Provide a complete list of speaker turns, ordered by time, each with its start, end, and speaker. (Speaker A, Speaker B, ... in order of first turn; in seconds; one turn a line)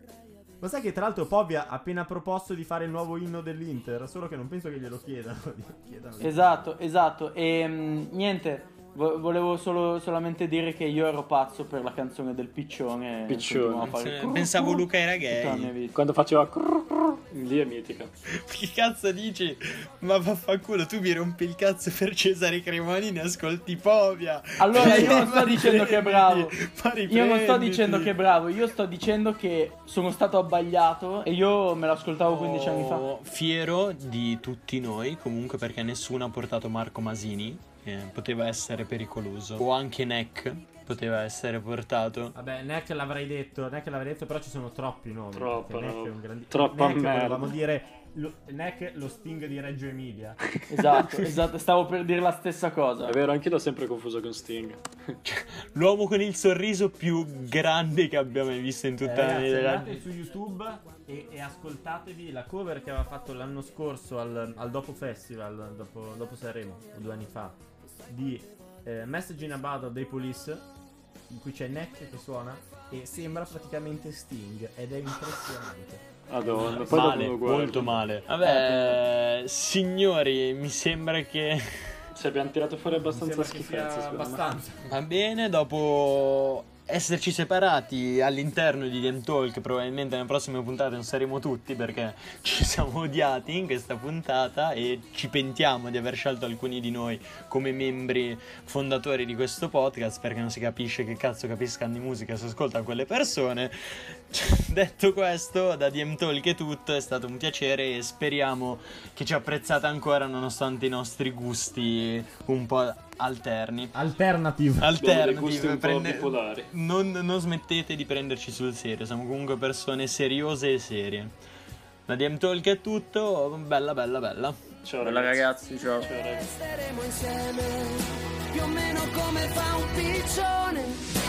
Speaker A: 0.6-6.5
Speaker B: 6.2-15.9
Speaker C: 13.3-13.9
Speaker D: 13.8-15.7
Speaker C: 15.9-18.1
Speaker D: 18.3-28.1
Speaker B: 24.6-26.6
Speaker B: 27.1-33.1
Speaker D: 32.3-42.3
Speaker A: 42.3-50.4
Speaker C: 45.3-47.5
Speaker B: 50.7-53.2
Speaker C: 53.0-55.1
Speaker D: 55.2-60.0
Speaker A: 59.0-70.6
Speaker A: 71.3-77.3
Speaker C: 76.3-78.0
Speaker D: 76.6-82.0
Speaker B: 78.4-79.0
Speaker C: 82.1-84.4
Speaker A: 82.9-84.8
Speaker D: 84.8-113.9
Speaker A: 113.9-114.9
Speaker D: 114.8-121.3
Speaker C: 115.0-116.7
Speaker D: 122.1-124.6
Speaker C: 124.8-126.5
Speaker B: 125.0-126.1
Speaker E: 126.2-131.1